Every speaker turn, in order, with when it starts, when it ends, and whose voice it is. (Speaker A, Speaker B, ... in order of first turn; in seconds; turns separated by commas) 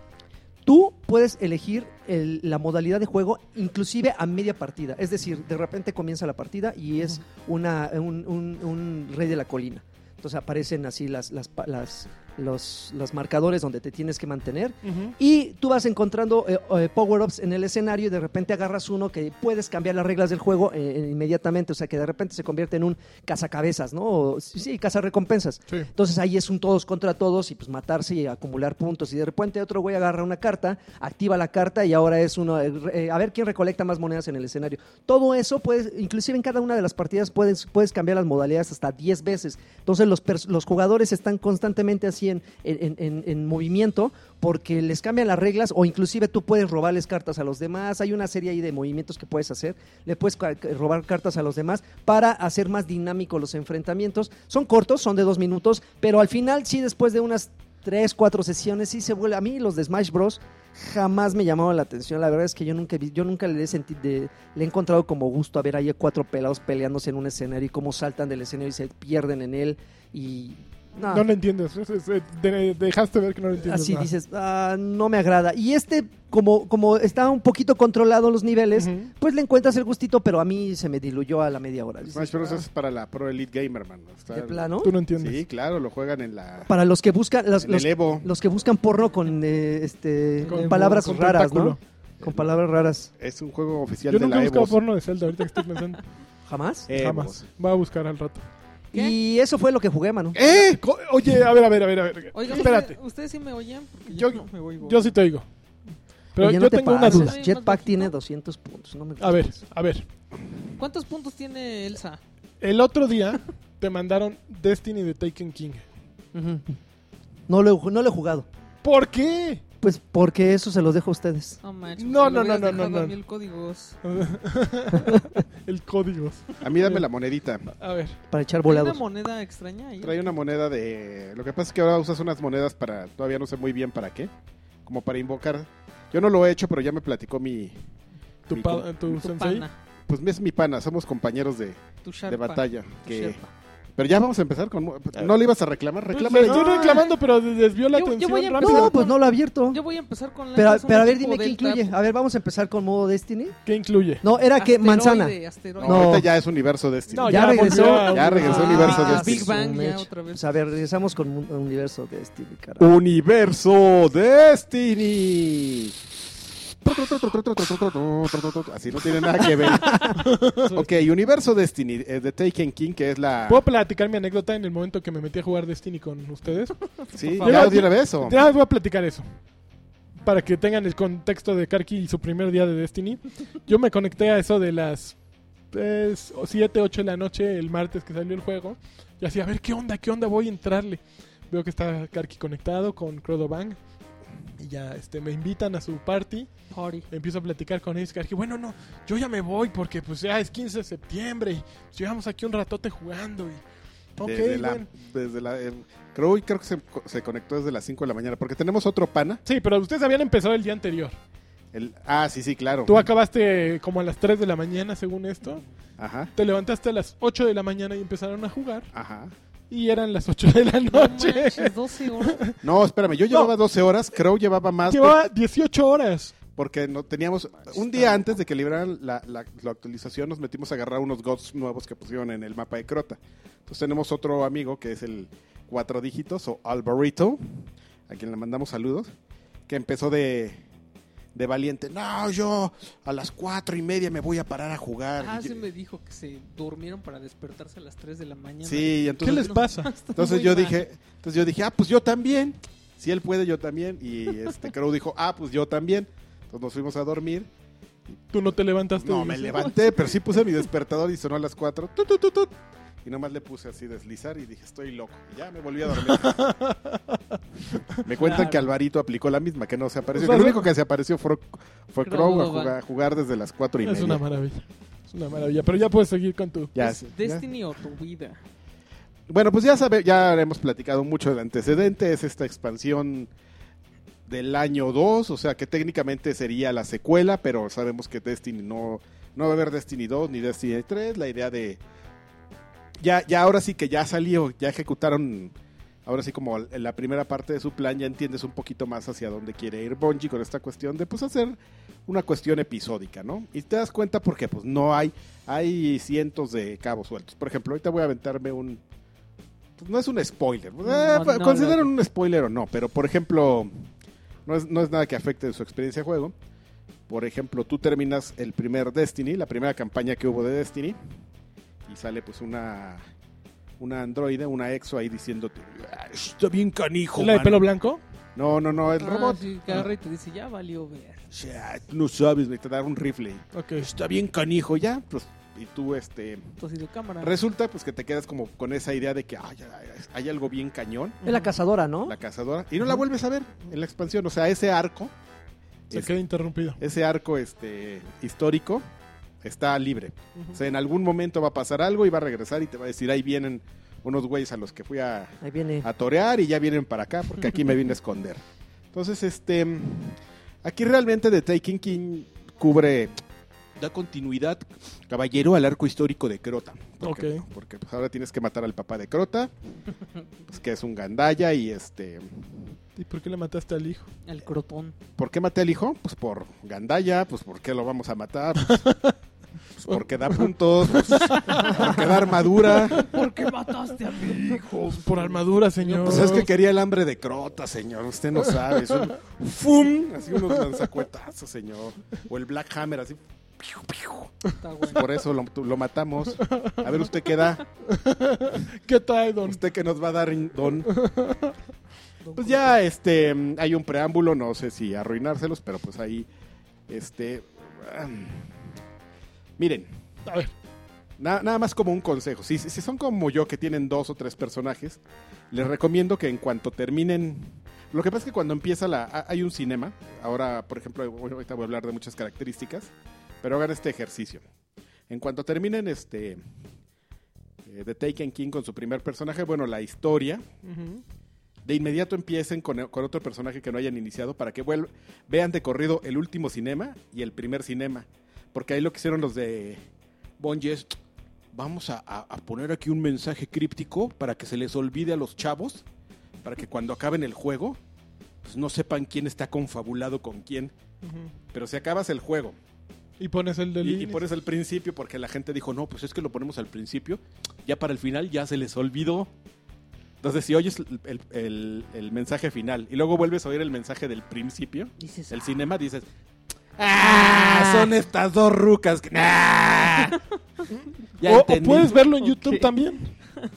Speaker A: 0.6-71.2, Speaker B: 14.8-15.1, Speaker B: 71.1-74.1, Speaker A: 73.5-82.6, Speaker B: 78.7-79.1, Speaker C: 82.1-84.6, Speaker A: 84.3-84.9, Speaker B: 84.8-85.4, Speaker C: 85.1-86.7, Speaker A: 86.7-93.1, Speaker C: 87.6-88.3, Speaker D: 90.4-90.9, Speaker B: 90.4-91.8, Speaker C: 92.2-92.5, Speaker C: 93.2-94.8, Speaker B: 94.1-96.0, Speaker A: 96.5-96.9, Speaker C: 96.9-97.4, Speaker B: 96.9-98.5, Speaker A: 98.9-100.4, Speaker C: 100.3-100.8, Speaker B: 100.6-103.0, Speaker D: 102.3-105.1, Speaker B: 104.1-105.5, Speaker B: 106.3-107.3, Speaker A: 106.4-109.6, Speaker D: 107.0-108.1, Speaker B: 109.2-110.0, Speaker D: 110.8-112.2, Speaker B: 112.6-115.8, Speaker A: 116.3-116.7, Speaker A: 117.5-118.5, Speaker B: 118.8-119.6, Speaker A: 119.8-121.6, Speaker D: 121.6-124.0, Speaker B: 122.0-123.1, Speaker B: 124.0-127.0, Speaker C: 126.6-127.7, Speaker B: 127.7-128.2, Speaker A: 128.3-129.0, Speaker D: 128.7-130.3, Speaker C: 130.0-134.3, Speaker C: 134.8-137.7, Speaker B: 138.5-139.7, Speaker C: 138.5-139.1, Speaker D: 139.1-139.7, Speaker C: 140.1-143.4, Speaker D: 142.0-143.5, Speaker C: 143.9-147.1, Speaker B: 146.1-148.9, Speaker D: 146.4-147.2, Speaker D: 147.9-151.9, Speaker A: 148.6-149.8, Speaker A: 150.5-153.6, Speaker B: 153.7-154.2, Speaker A: 154.2-156.3, Speaker D: 154.6-156.2, Speaker C: 155.8-159.5, Speaker B: 157.1-159.0, Speaker A: 157.2-162.9, Speaker D: 158.3-160.4, Speaker C: 162.8-166.0, Speaker C: 166.8-173.7, Speaker A: 169.8-170.1, Speaker B: 170.2-170.8, Speaker B: 173.5-176.8, Speaker C: 177.1-178.4, Speaker B: 177.4-179.2, Speaker D: 177.4-177.7, Speaker B: 180.2-185.2, Speaker B: 185.7-193.8, Speaker B: 194.6-196.5, Speaker D: 196.7-197.1, Speaker B: 197.1-203.6, Speaker B: 204.2-204.8, Speaker C: 204.2-209.4, Speaker B: 209.4-211.2, Speaker C: 211.7-213.1, Speaker B: 212.9-215.6, Speaker C: 216.0-216.3, Speaker B: 216.3-218.9, Speaker C: 218.9-219.3, Speaker B: 219.7-222.5, Speaker D: 220.9-222.4, Speaker C: 222.6-225.2, Speaker B: 224.8-226.3, Speaker C: 226.5-237.5, Speaker C: 238.1-239.1, Speaker C: 239.7-240.6, Speaker C: 241.3-245.6, Speaker D: 245.2-250.8, Speaker C: 248.6-249.6, Speaker B: 249.2-249.9, Speaker C: 250.1-257.5, Speaker B: 258.3-259.7, Speaker C: 258.9-266.4, Speaker B: 266.0-267.4, Speaker C: 268.0-274.2, Speaker D: 268.1-268.6, Speaker B: 270.1-270.7, Speaker D: 272.0-272.8, Speaker B: 273.8-276.7, Speaker C: 276.7-277.5, Speaker D: 276.8-278.4, Speaker C: 279.3-283.3, Speaker C: 284.3-291.8, Speaker C: 293.0-295.5, Speaker C: 296.1-308.8, Speaker C: 309.8-313.7, Speaker D: 310.8-311.9, Speaker C: 314.4-316.3, Speaker C: 317.1-321.0, Speaker C: 321.9-323.0, Speaker C: 323.8-327.6, Speaker B: 327.2-328.0, Speaker C: 328.4-329.8, Speaker D: 328.9-331.2, Speaker C: 331.3-336.5, Speaker B: 333.5-333.9, Speaker D: 336.6-337.3, Speaker C: 337.2-341.2, Speaker A: 341.2-342.1, Speaker C: 342.0-345.1, Speaker B: 345.9-346.8, Speaker C: 346.8-348.8, Speaker C: 349.4-363.1, Speaker A: 355.4-355.9, Speaker C: 363.8-369.5, Speaker B: 367.0-367.4, Speaker C: 370.4-372.8, Speaker B: 372.9-374.1, Speaker D: 374.2-374.9, Speaker C: 375.2-378.8, Speaker B: 378.8-379.1, Speaker C: 379.7-383.1, Speaker B: 380.9-381.9, Speaker D: 382.8-386.5, Speaker C: 384.2-385.1, Speaker B: 384.8-386.4, Speaker C: 386.0-397.6, Speaker D: 394.6-395.1, Speaker B: 396.4-396.9, Speaker B: 397.9-399.6, Speaker C: 399.4-400.9, Speaker B: 400.9-401.5, Speaker D: 402.2-402.7, Speaker C: 402.3-406.3, Speaker C: 406.9-408.6, Speaker C: 409.6-409.9, Speaker B: 410.2-410.5, Speaker C: 411.2-424.4, Speaker C: 425.1-426.4, Speaker C: 427.6-430.4, Speaker B: 430.6-431.0, Speaker C: 431.6-439.8, Speaker C: 440.4-441.0, Speaker C: 441.5-445.8, Speaker C: 446.4-447.8, Speaker C: 448.4-450.7, Speaker B: 451.0-451.3, Speaker C: 451.5-452.6, Speaker B: 453.2-454.2, Speaker C: 453.8-459.3, Speaker C: 460.2-466.1, Speaker D: 465.0-465.5, Speaker C: 466.8-470.2, Speaker D: 467.4-467.8, Speaker C: 471.2-472.0, Speaker B: 471.2-473.1, Speaker D: 472.2-472.7